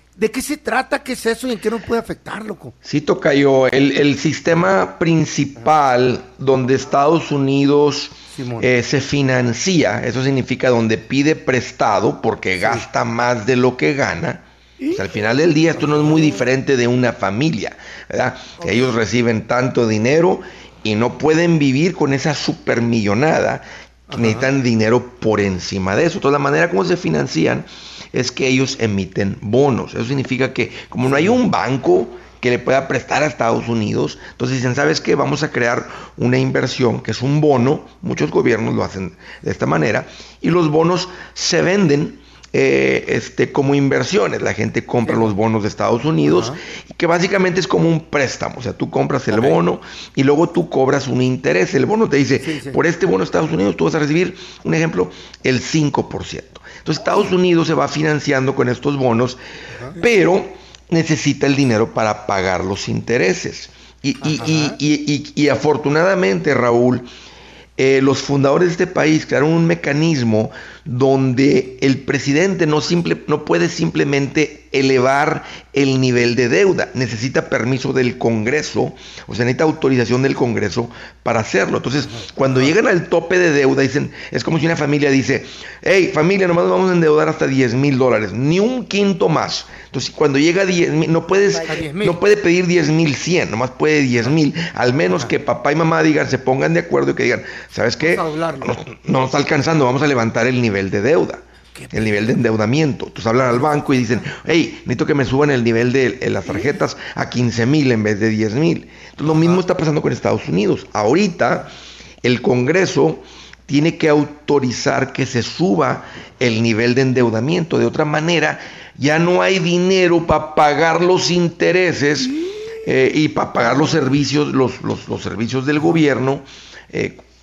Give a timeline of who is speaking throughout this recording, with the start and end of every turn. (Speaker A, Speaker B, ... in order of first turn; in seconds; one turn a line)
Speaker A: 0.2-2.7
Speaker B: 2.8-59.4
Speaker A: 8.3-8.7
Speaker A: 14.8-15.1
Speaker A: 15.7-16.4
Speaker A: 24.1-24.5
Speaker A: 45.0-45.3
Speaker A: 46.2-46.6
Speaker A: 52.4-52.8
Speaker B: 60.0-67.1
Speaker A: 64.2-64.8
Speaker B: 67.8-111.7
Speaker A: 91.6-92.2
Speaker A: 98.0-98.8
Speaker A: 101.8-102.3
Speaker A: 109.3-109.6
Speaker B: 112.2-127.2